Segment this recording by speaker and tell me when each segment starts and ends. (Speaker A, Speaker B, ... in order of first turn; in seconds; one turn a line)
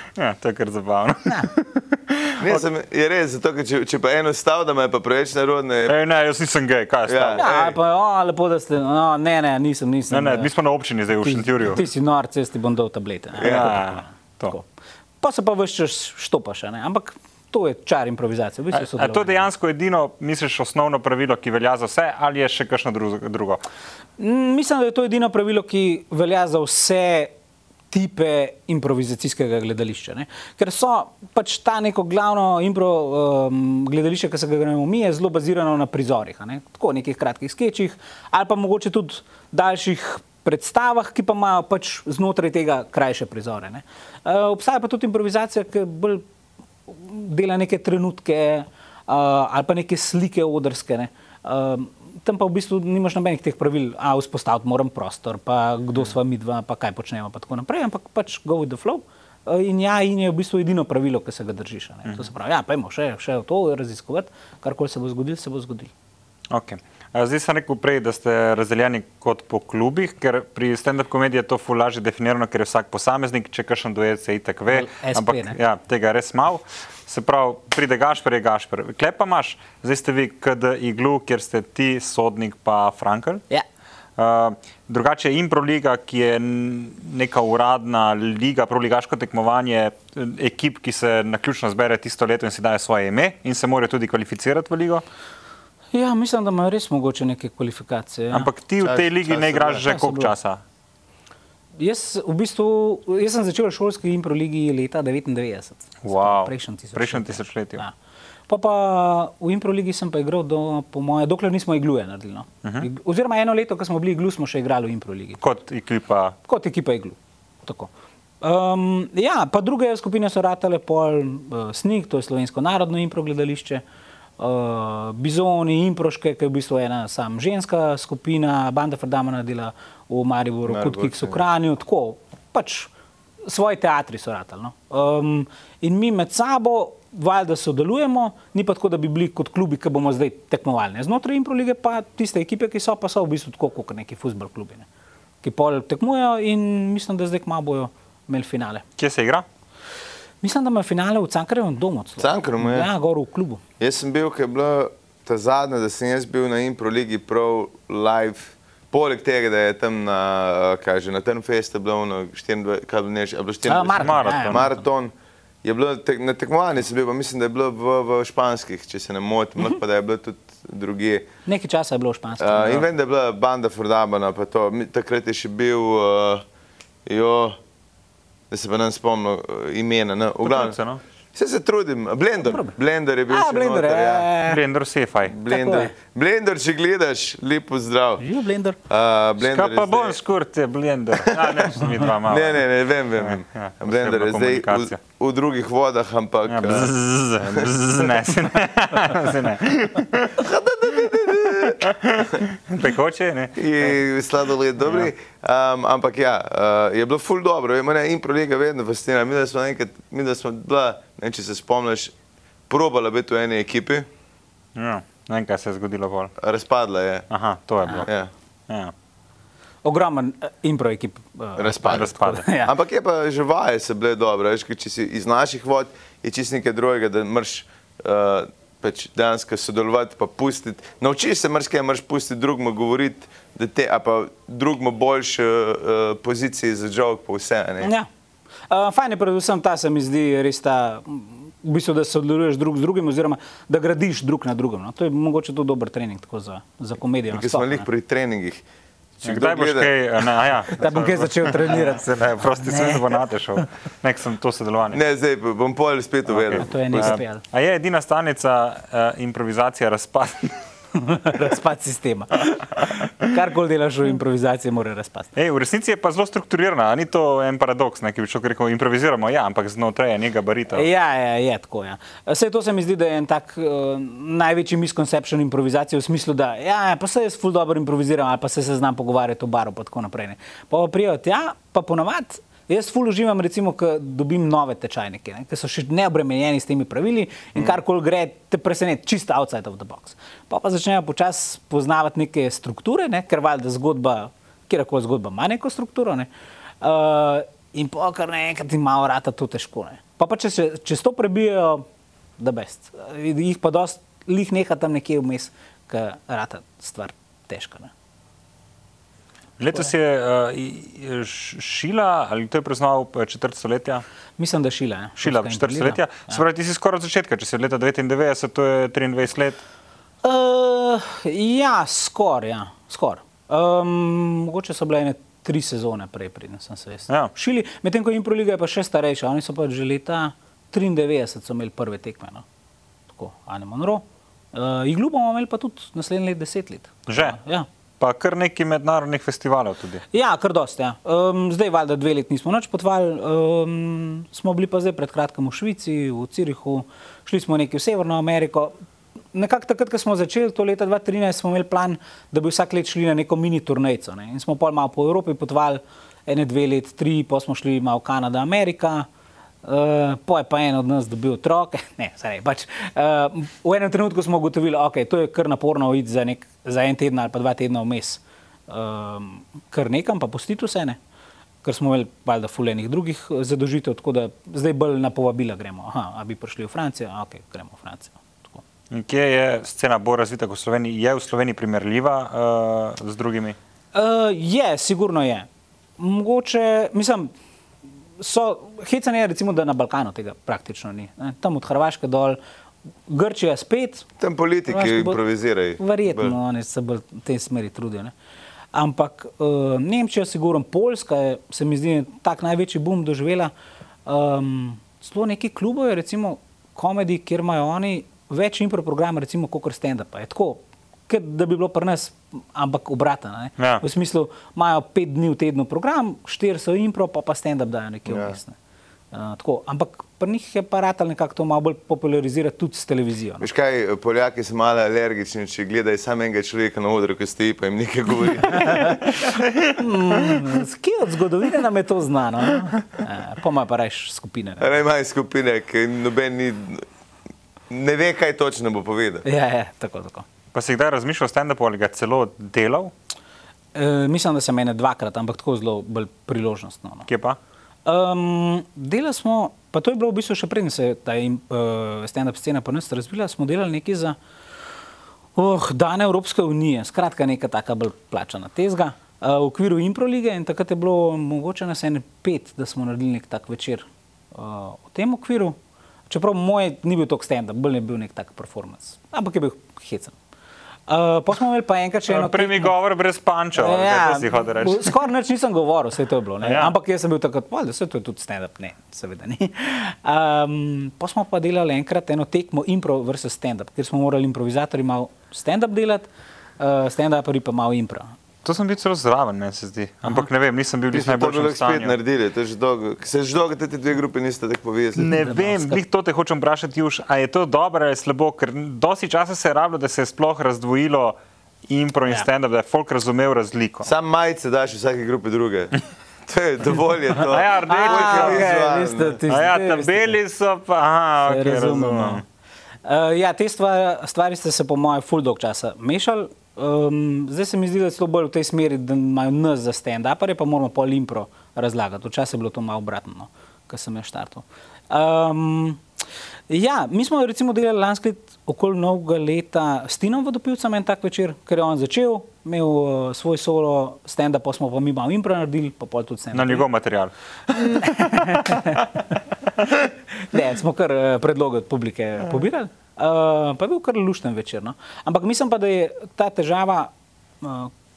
Speaker A: 0.2-2.6
Speaker B: 2.4-6.0
Speaker A: 5.9-7.5
Speaker B: 7.1-7.8
Speaker C: 7.4-10.5
Speaker A: 10.1-11.8
Speaker C: 11.2-14.7
Speaker A: 13.4-14.5
Speaker B: 13.4-13.8
Speaker C: 15.2-19.5
Speaker A: 18.7-23.6
Speaker C: 24.2-27.3
Speaker C: 27.9-46.2
Speaker C: 46.9-65.9
Speaker A: 66.5-83.4
Speaker C: 74.7-75.6
Speaker A: 84.2-95.0
Speaker C: 95.9-98.5
Speaker A: 98.3-100.6
Speaker B: 98.8-100.0
Speaker C: 99.8-100.3
Speaker C: 101.8-107.9
Speaker A: 106.0-107.8
Speaker C: 108.5-115.4
Speaker A: 115.4-116.4
Speaker C: 116.5-117.9
Speaker C: 118.4-123.8
Speaker C: 124.4-132.9
Speaker B: 130.7-131.4
Speaker C: 133.5-144.9
Speaker C: 145.4-148.8
Speaker A: 149.0-149.5
Speaker C: 150.4-153.6
Speaker B: 152.2-152.9
Speaker B: 153.8-165.1
Speaker C: 163.7-164.7
Speaker A: 164.0-164.7
Speaker B: 165.6-171.3
Speaker C: 171.5-172.9
Speaker B: 172.4-176.4
Speaker B: 177.1-177.6
Speaker B: 178.5-180.8
Speaker A: 180.4-181.0
Speaker B: 181.3-184.3
Speaker C: 182.5-182.7
Speaker C: 183.3-184.6
Speaker A: 184.4-185.4
Speaker B: 185.2-188.2
Speaker C: 185.5-185.9
Speaker C: 188.2-188.8
Speaker B: 188.9-190.2
Speaker A: 189.4-192.7
Speaker B: 191.3-196.9
Speaker A: 193.2-195.0
Speaker A: 196.5-200.4
Speaker B: 200.3-201.9
Speaker A: 201.5-203.7
Speaker B: 203.6-212.1
Speaker A: 204.8-205.1
Speaker B: 212.7-214.1
Speaker A: 214.8-216.3
Speaker B: 216.4-217.3
Speaker A: 217.3-218.1
Speaker B: 218.0-218.3
Speaker C: 219.8-222.7
Speaker B: 221.6-237.9
Speaker A: 221.8-222.5
Speaker C: 237.8-238.1
Speaker C: 238.7-247.9
Speaker B: 247.3-248.6
Speaker B: 249.2-249.9
Speaker A: 249.2-255.0
Speaker C: 250.7-253.7
Speaker B: 254.9-257.2
Speaker A: 256.3-260.6
Speaker C: 256.5-257.4
Speaker C: 260.9-265.3
Speaker A: 265.4-270.9
Speaker C: 270.7-296.3
Speaker C: 296.8-301.8
Speaker C: 302.4-307.9
Speaker A: 309.6-314.0
Speaker C: 314.4-316.4
Speaker A: 315.2-319.6
Speaker C: 320.2-332.4
Speaker C: 333.1-337.7
Speaker A: 337.1-337.4
Speaker A: 338.0-340.0
Speaker C: 340.1-348.7
Speaker C: 349.3-359.1
Speaker C: 359.6-371.0
Speaker C: 371.6-378.6
Speaker A: 378.9-383.6
Speaker C: 383.9-385.5
Speaker C: 386.0-387.3
Speaker C: 388.2-392.4
Speaker C: 393.1-394.1
Speaker B: 394.2-396.4
Speaker C: 394.7-395.2
Speaker C: 395.8-398.1
Speaker C: 398.7-403.5
Speaker C: 404.1-418.6
Speaker B: 418.1-418.4
Speaker C: 419.1-423.5
Speaker B: 423.4-429.1
Speaker C: 428.5-434.8
Speaker B: 434.6-436.9
Speaker B: 437.7-439.2
Speaker C: 439.2-440.2
Speaker A: 440.5-442.9
Speaker C: 443.7-447.1
Speaker A: 447.1-447.4
Speaker C: 447.9-454.2
Speaker C: 455.4-465.6
Speaker C: 466.1-470.2
Speaker C: 470.9-472.7
Speaker A: 472.1-475.1
Speaker C: 473.6-486.1
Speaker A: 476.4-476.7
Speaker C: 486.6-488.1
Speaker A: 488.4-491.9
Speaker B: 490.9-495.1
Speaker A: 495.0-501.2
Speaker C: 495.0-495.8
Speaker A: 501.7-503.9
Speaker B: 503.8-509.2
Speaker A: 507.2-508.5
Speaker C: 507.6-510.2
Speaker A: 509.3-512.2
Speaker C: 511.2-512.2
Speaker C: 512.9-525.8
Speaker C: 526.5-536.7
Speaker A: 536.3-538.8
Speaker C: 537.7-538.9
Speaker C: 540.2-546.9
Speaker C: 547.4-547.7